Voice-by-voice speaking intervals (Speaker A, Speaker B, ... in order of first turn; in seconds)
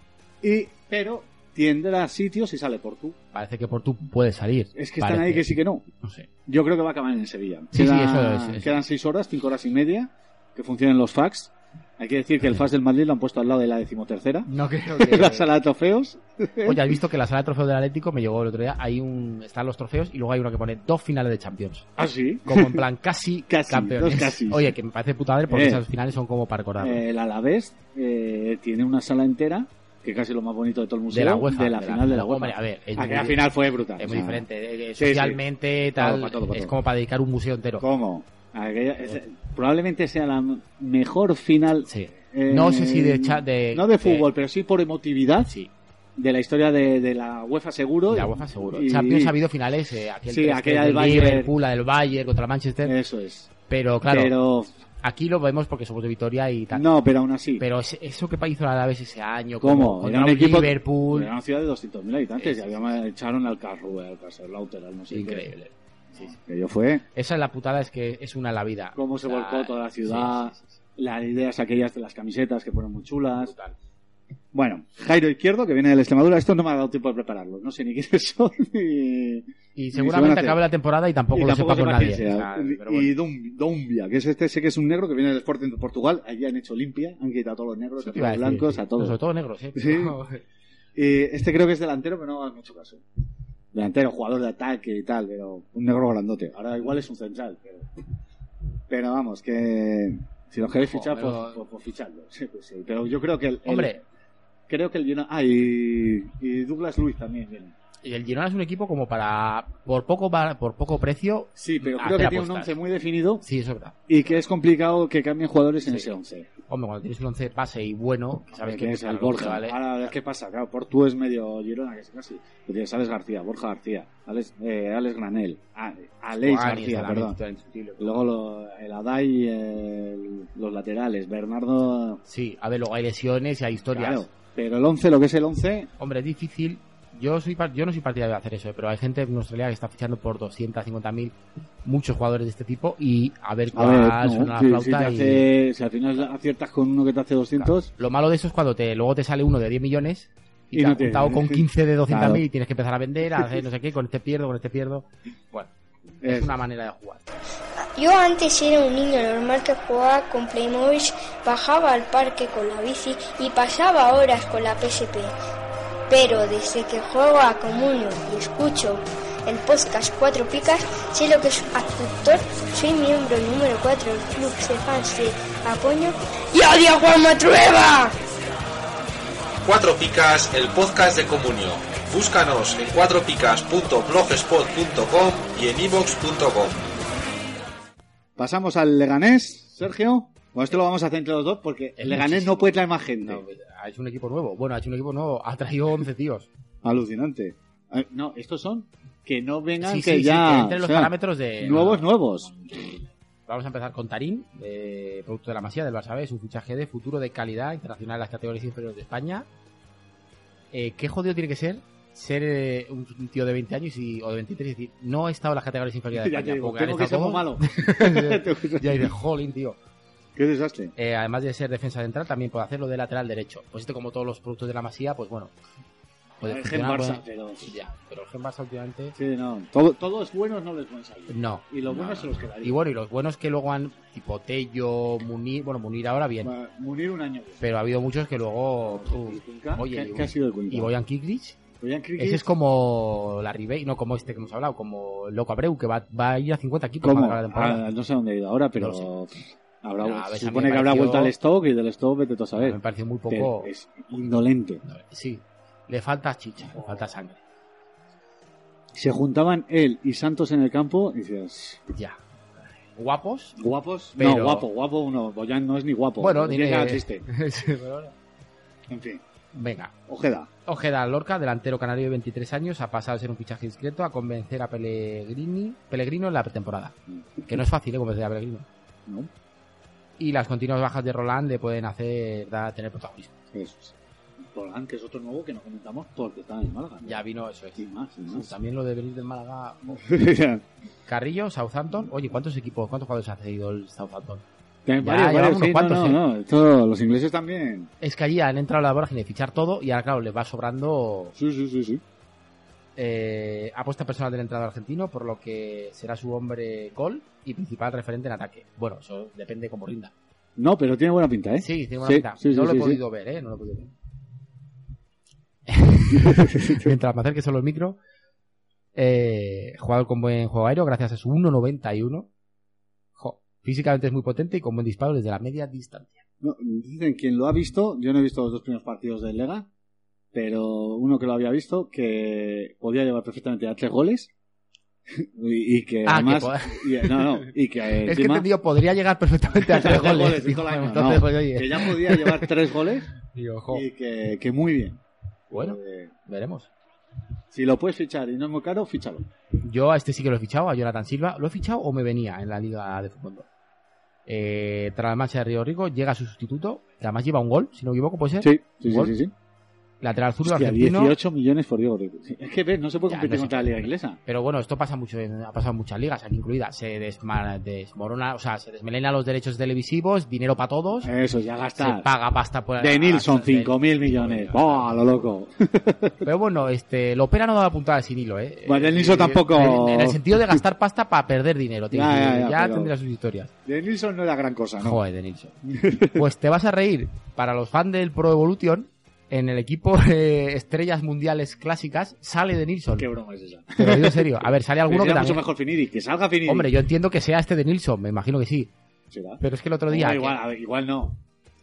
Speaker A: 0.4-3.2, 4.7-5.8, 6.5-17.0, 22.0-22.8, 23.5-24.7, 25.5-25.8, 26.8-34.4, 35.0-35.4, 36.0-36.7, 37.8-45.6, 46.2-49.4, 50.3-51.5, 52.8-53.5, 54.0-54.7, 56.7-57.6, 59.6-65.5, 66.1-67.0, 69.0-73.5, 74.5-80.6, 81.3-89.2, 89.8-90.2, 91.0-93.0, 93.7-97.9, 98.9-104.0, 104.7-107.7, 111.5-113.4, 114.1-116.5, 118.5-127.4, 128.0-132.2, 133.9-135.9, 143.7-147.9, 150.7-152.4, 156.2-156.5, 188.4-193.4, 196.8-203.0, 216.1-219.1, 220.3-220.9, 226.4-227.7, 229.2-232.8, 236.4-237.6, 238.8-240.9, 241.8-242.4, 247.0-252.8, 253.3-254.8, 256.7-257.0, 258.9-261.8, 263.6-267.2, 268.9-269.2, 270.1-270.5, 283.5-283.9, 284.5-287.2, 287.8-288.5, 290.0-290.6, 294.9-297.9, 301.4-302.0, 310.6-313.0, 316.2-316.9, 326.4-329.7, 330.3-334.3, 335.2-338.5, 339.7-343.1, 343.7-345.0, 345.5-346.1, 347.5-349.2, 358.4-359.3, 360.4-364.2, 371.0-372.1, 372.8-376.1, 378.7-380.6, 381.9-382.9, 383.6-385.0, 385.7-386.2, 393.0-396.7, 399.1-401.2
Speaker B: 3.3-6.3, 7.7-8.7, 14.5-15.5, 16.6-21.9, 22.5-27.0, 31.1-33.4, 34.0-37.8, 41.9-44.2, 48.1-52.9, 53.7-54.3, 55.0-56.8, 57.6-61.3, 62.4-62.9, 65.1-66.3, 67.1-70.7, 73.5-73.7, 79.8-83.1, 88.0-90.4, 100.8-101.6, 103.7-104.0, 108.0-112.7, 113.4-114.0, 116.7-119.8, 126.3-128.2, 132.2-134.3, 136.0-141.3, 141.8-145.4, 147.6-157.2, 192.0-192.6, 193.2-196.5, 199.8-202.0, 203.5-209.5, 210.7-219.8, 221.0-225.5, 226.4-229.1, 231.3-236.5, 237.6-241.6, 242.2-247.8, 248.8-249.1, 250.0-251.3, 252.6-253.7, 254.8-257.4, 261.9-263.5, 264.2-264.6, 266.2-268.1, 269.5-269.9, 270.6-276.9, 277.4-278.6, 280.2-283.3, 287.0-290.0, 291.1-294.4, 295.0-296.2, 298.0-301.3, 302.9-310.1, 311.6-313.9, 315.7-318.0, 318.9-322.3, 323.2-326.2, 336.1-337.3, 338.0-342.5, 343.3-343.8, 345.5-346.7, 349.6-353.4, 354.3-359.1, 360.0-361.1, 363.1-371.1, 371.8-375.2, 376.2-383.5, 384.8-385.5, 386.1-393.1, 393.8-395.4, 396.4-398.7, 399.4-400.4
Speaker C: 158.0-165.3, 166.1-178.1
Speaker D: 179.6-186.8